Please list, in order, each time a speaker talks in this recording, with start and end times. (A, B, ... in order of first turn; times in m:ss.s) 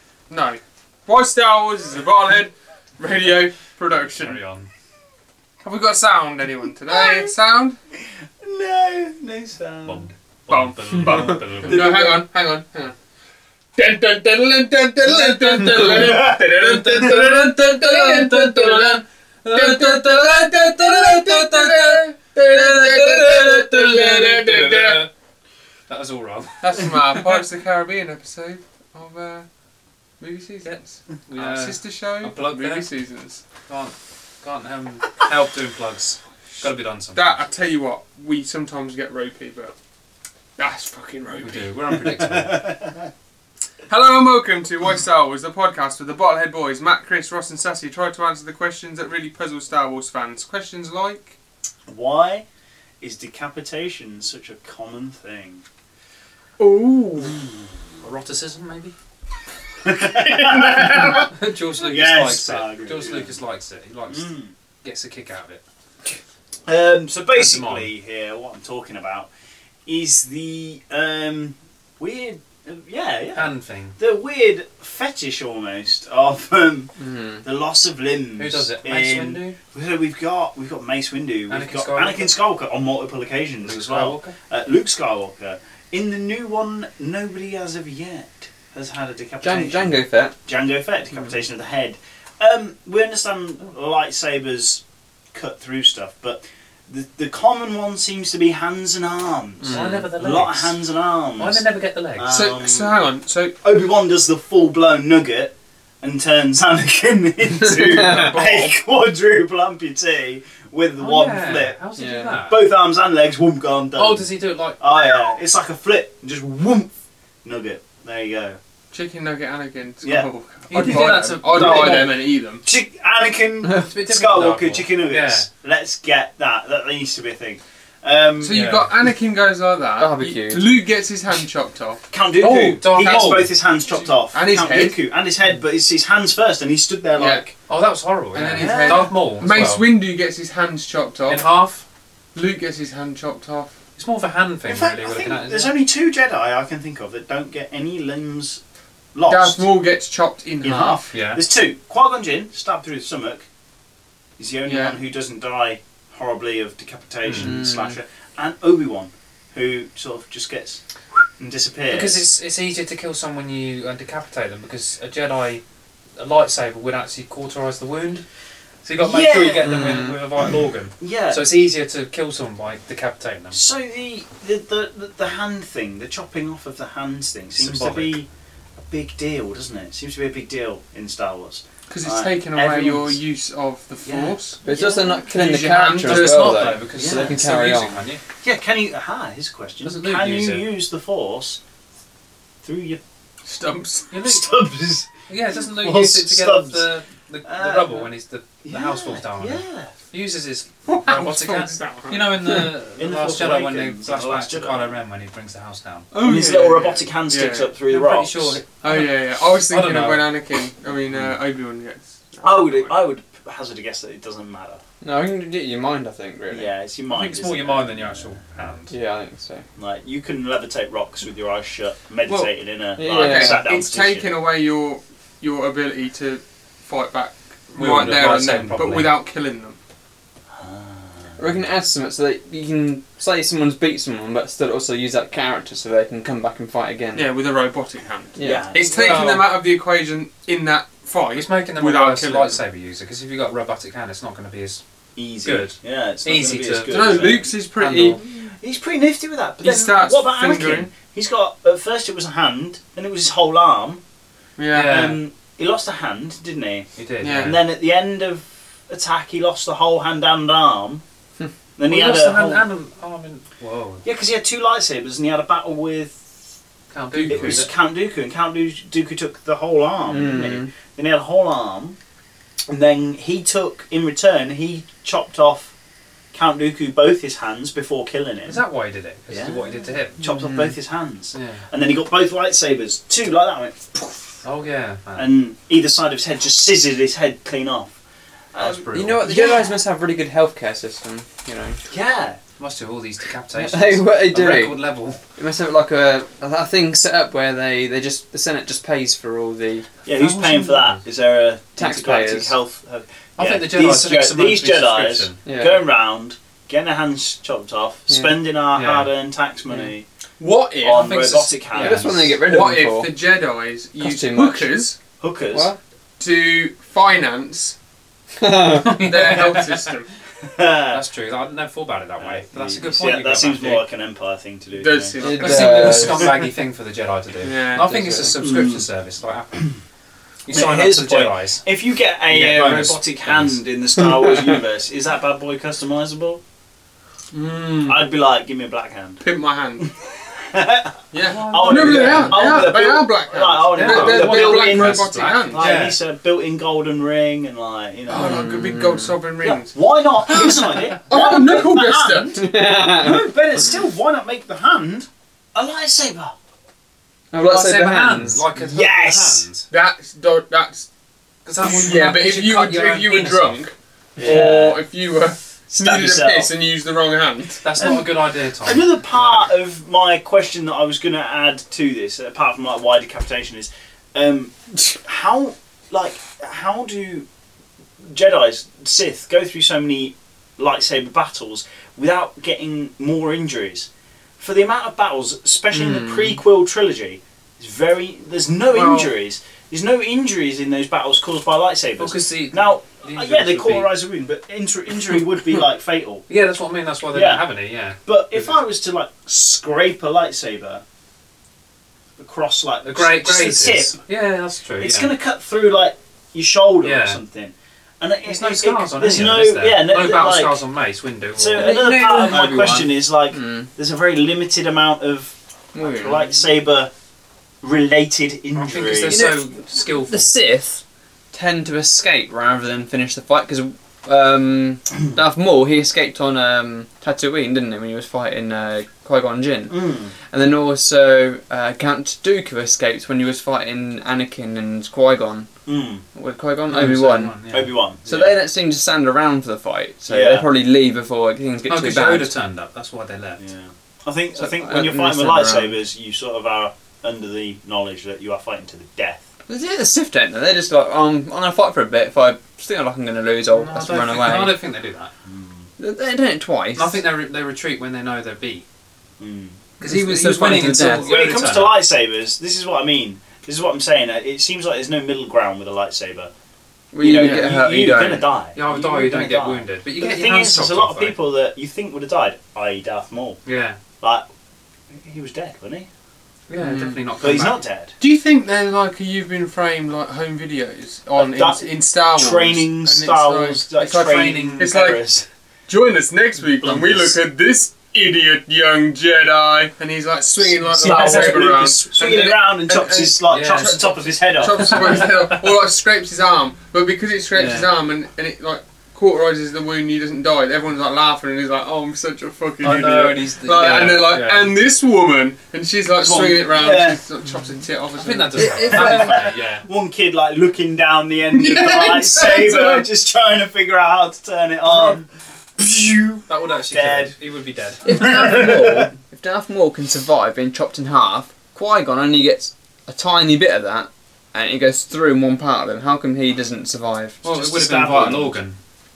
0:00.3-0:04.4 A
0:04.2-0:04.7 B
0:05.6-0:07.8 A
0:06.9-0:07.3 C
0:08.4-0:10.1 C
0:09.8-0:12.0 B
0:10.5-0:12.9 A
0:11.6-0:12.2 C
0:13.8-0:25.1 A
0:15.0-0:17.1 C
0:17.0-0:25.1 B
0:25.9-0:27.2 B
0:26.6-0:29.5 A
0:30.2-0:33.4 A
0:30.6-0:32.9 B
0:33.7-0:37.4 B
0:37.1-0:39.7 A
0:40.6-0:41.7 A
0:41.4-0:42.7 B
0:41.9-0:43.1 C
0:43.9-0:51.3 A
0:51.9-0:52.4 C
0:53.0-0:55.6 C
0:56.6-0:57.4 A
0:57.2-0:57.8 C
0:58.0-0:58.9 B
0:59.8-1:01.3 C
1:00.1-1:01.2 A
1:01.1-1:04.3 B
1:01.8-1:03.4 C
1:04.1-1:04.5 C
1:04.8-1:05.6 B
1:06.6-1:09.3 C
1:07.3-1:07.9 B
1:09.8-1:34.8 C
1:13.3-1:14.0 B
1:17.0-1:17.4 D
1:18.4-1:19.6 B
1:21.5-1:22.4 B
1:23.6-1:24.4 B
1:29.4-1:30.3 D
1:35.3-1:43.0 C
1:39.6-1:42.3 B
1:39.7-1:40.0 D
1:42.3-1:43.5 A
1:43.6-1:51.8 C
1:47.9-1:48.5 D
1:47.9-1:48.7 A
1:51.0-1:52.7 B
1:52.0-1:52.4 D
1:52.5-1:56.9 C
1:54.0-1:54.8 B
1:57.4-1:58.6 C
1:58.9-2:02.6 A
2:00.0-2:00.3 C
2:00.7-2:02.1 B
2:00.9-2:08.6 C
2:03.8-2:05.5 B
2:08.4-2:12.0 A
2:08.5-2:08.9 B
2:10.0-2:10.7 D
2:12.1-2:17.5 C
2:12.4-2:13.5 B
2:12.9-2:15.0 A
2:17.1-2:17.4 A
2:17.7-2:19.8 B
2:18.3-2:21.4 A
2:18.4-2:19.1 C
2:21.3-2:21.8 B
2:22.3-2:23.7 A
2:24.0-2:25.7 B
2:24.6-2:28.6 C
2:29.1-2:29.7 C
2:29.2-2:31.0 A
2:30.6-2:33.4 C
2:31.1-2:31.4 B
2:34.4-2:40.8 C
2:34.6-2:35.0 A
2:37.2-2:37.6 B
2:37.4-2:38.0 D
2:41.4-2:42.3 C
2:41.9-2:45.6 B
2:46.2-2:48.2 B
2:48.8-2:53.6 B
2:49.0-2:50.1 C
2:49.6-2:50.2 D
2:51.0-2:51.4 C
2:53.5-2:58.3 C
2:57.6-2:58.2 B
2:58.8-3:03.2 C
3:01.9-3:04.6 A
3:04.0-3:05.3 C
3:04.6-3:08.0 D
3:05.3-3:06.4 A
3:06.0-3:08.2 B
3:06.9-3:07.4 C
3:08.4-3:11.6 C
3:09.8-3:10.7 B
3:12.6-3:13.0 C
3:13.4-3:14.1 A
3:14.1-3:14.5 B
3:14.2-3:16.9 C
3:15.3-3:26.1 B
3:17.4-3:18.1 C
3:18.6-3:19.9 C
3:20.9-3:22.3 A
3:23.0-3:25.0 C
3:26.1-3:27.7 A
3:26.1-3:28.6 C
3:27.9-3:30.3 B
3:28.8-3:32.9 A
3:32.4-3:34.8 C
3:35.0-3:36.7 D
3:36.5-3:38.5 C
3:37.1-3:38.9 B
3:38.9-3:39.6 D
3:39.7-3:44.3 C
3:42.2-3:42.5 B
3:42.9-3:43.6 D
3:43.1-3:49.8 A
3:47.8-3:49.1 B
3:47.8-3:48.8 D
3:50.6-3:51.4 C
3:51.4-3:57.3 D
3:57.1-4:02.6 A
3:58.4-3:58.7 D
3:58.4-3:59.2 C
3:58.8-3:59.5 B
4:01.3-4:04.8 B
4:05.2-4:07.5 C
4:05.4-4:08.2 B
4:06.9-4:08.2 A
4:07.8-4:08.5 D
4:08.6-4:14.0 C
4:09.6-4:10.9 A
4:14.6-4:15.0 A
4:14.7-4:15.2 B
4:14.8-4:21.0 C
4:16.9-4:17.6 B
4:17.2-4:17.6 A
4:21.8-4:22.6 C
4:21.8-4:24.0 B
4:24.0-4:26.2 C
4:26.9-4:27.7 B
4:27.1-4:32.0 C
4:30.0-4:30.7 D
4:32.7-4:35.7 C
4:36.3-4:38.6 C
4:38.4-4:40.2 B
4:39.3-4:44.4 C
4:40.2-4:40.8 D
4:41.3-4:41.6 B
4:44.4-4:45.4 B
4:45.2-4:47.9 C
4:48.5-4:49.7 C
4:48.6-4:49.3 B
4:48.7-4:51.8 D
4:51.9-4:52.4 C
4:52.6-4:55.2 B
4:53.5-5:00.8 D
5:00.0-5:10.0 C
5:01.8-5:02.5 D
5:03.4-5:05.4 B
5:05.4-5:05.8 D
5:08.1-5:08.4 D
5:08.7-5:09.1 B
5:10.4-5:11.1 A
5:10.8-5:12.4 C
5:10.9-5:12.3 B
5:11.7-5:13.1 D
5:12.4-5:15.0 A
5:14.0-5:14.7 D
5:15.2-5:15.7 C
5:15.5-5:15.8 D
5:16.2-5:17.8 A
5:18.4-5:19.0 D
5:18.8-5:19.9 B
5:18.9-5:20.1 A
5:20.4-5:21.0 C
5:20.9-5:23.8 B
5:22.2-5:25.2 C
5:24.8-5:26.1 A
5:25.2-5:26.2 D
5:25.2-5:29.7 B
5:27.4-5:28.3 A
5:28.4-5:28.8 C
5:30.4-5:31.6 B
5:30.5-5:36.4 C
5:32.3-5:33.6 B
5:32.4-5:32.8 A
5:34.0-5:34.6 D
5:37.3-5:38.1 A
5:37.8-5:39.2 C
5:39.2-5:39.8 A
5:39.8-5:48.4 C
5:41.1-5:45.7 A
5:41.2-5:42.7 B
5:43.7-5:46.0 B
5:48.1-5:52.4 A
5:48.1-5:49.2 D
5:49.4-5:56.3 C
5:52.3-5:53.2 D
5:57.3-5:58.4 D
5:57.4-5:59.7 B
5:58.5-5:59.5 C
5:59.7-6:00.9 A
6:01.4-6:03.6 B
6:01.6-6:07.6 A
6:04.2-6:04.8 C
6:05.7-6:06.5 C
6:07.6-6:09.5 B
6:07.8-6:17.3 C
6:18.0-6:36.2 C
6:25.7-6:26.4 D
6:28.7-6:29.1 B
6:32.0-6:33.9 B
6:36.3-6:38.5 B
6:37.1-6:37.4 C
6:38.0-6:40.8 C
6:42.2-6:44.0 C
6:42.8-6:45.1 B
6:44.8-6:50.6 C
6:46.8-6:47.2 B
6:48.2-6:52.9 B
6:51.4-6:56.9 C
6:51.6-6:52.4 D
6:53.3-6:53.7 D
6:55.7-6:56.3 D
6:57.6-6:59.2 C
6:58.6-7:00.3 B
6:59.1-7:15.5 D
7:09.7-7:10.1 C
7:15.6-7:16.0 C
7:16.1-7:17.4 D
7:16.7-7:17.8 B
7:17.5-7:18.4 C
7:18.0-7:22.3 D
7:20.1-7:20.5 C
7:21.6-7:23.5 B
7:23.4-7:29.2 C
7:24.3-7:25.8 D
7:29.5-7:34.6 D
7:33.5-7:35.1 B
7:35.2-7:35.7 C
7:35.8-7:37.0 D
7:36.7-7:38.6 B
7:39.2-7:39.6 C
7:39.8-7:41.8 B
7:39.8-7:41.2 D
7:40.8-7:46.3 C
7:46.9-7:48.3 D
7:47.0-7:53.4 C
7:47.1-7:47.6 B
7:48.5-7:51.2 B
7:53.4-7:53.8 B
7:54.0-7:54.2 C
7:54.9-7:55.9 C
7:56.5-7:57.6 B
7:56.6-7:57.0 D
7:57.2-7:57.9 C
7:58.0-8:28.8 A
8:01.1-8:05.3 C
8:03.9-8:04.7 B
8:06.5-8:07.2 B
8:10.4-8:15.1 C
8:10.8-8:11.4 B
8:13.3-8:13.9 B
8:14.6-8:15.4 B
8:17.3-8:17.7 B
8:22.6-8:24.5 B
8:26.0-8:27.0 C
8:28.0-8:29.6 B
8:28.4-8:37.1 C
8:28.4-8:29.1 D
8:31.3-8:32.8 A
8:36.3-8:37.8 B
8:37.8-8:47.2 D
8:37.8-8:38.9 C
8:47.2-8:48.6 B
8:47.3-8:48.4 C